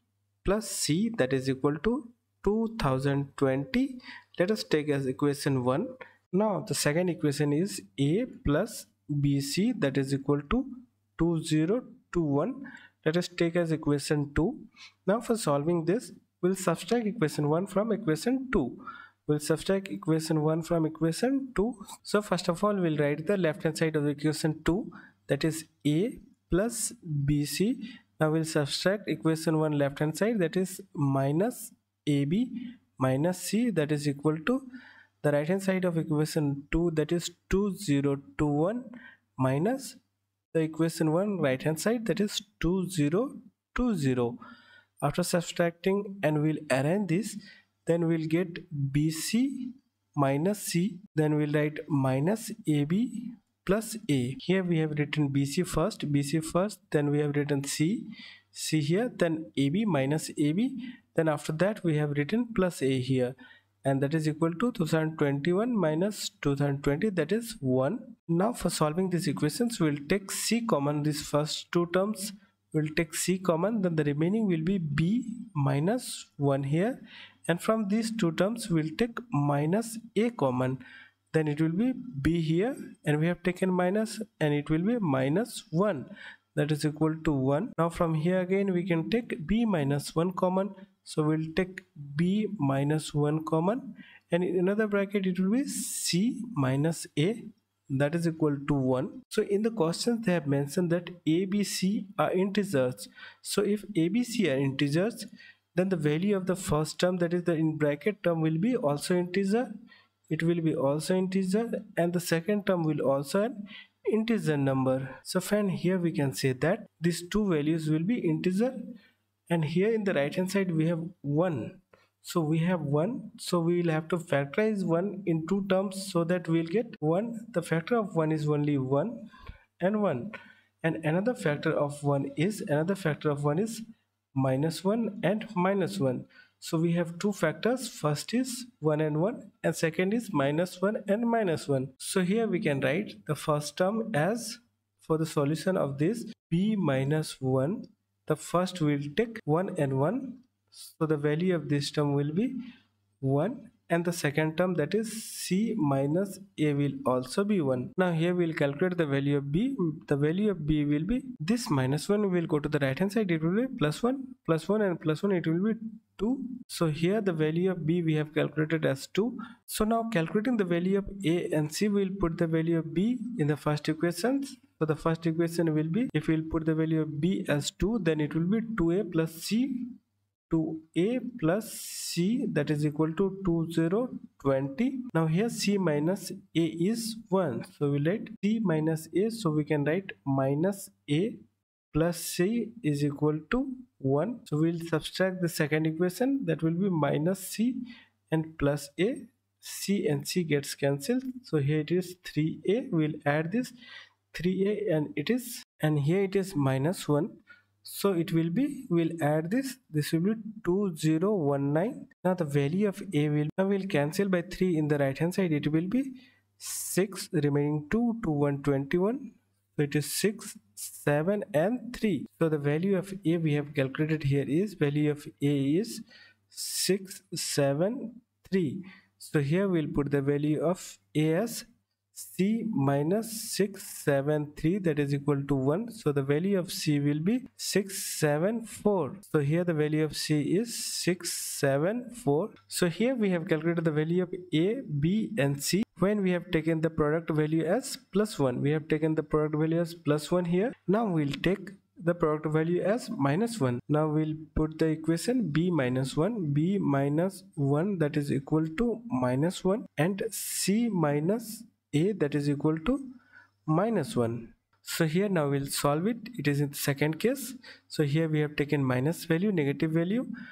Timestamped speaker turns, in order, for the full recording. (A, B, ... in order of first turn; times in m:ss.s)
0:00.4-0:34.6 A
0:35.2-0:40.0 A
0:40.5-0:44.4 A
0:45.0-1:20.8 A
1:21.3-1:49.7 A
1:50.3-1:58.8 A
1:59.5-2:09.2 A
2:09.8-2:32.6 A
2:33.2-2:59.9 A
3:00.5-3:11.4 A
3:11.9-3:23.7 A
3:24.3-4:23.0 A
4:23.7-4:30.3 A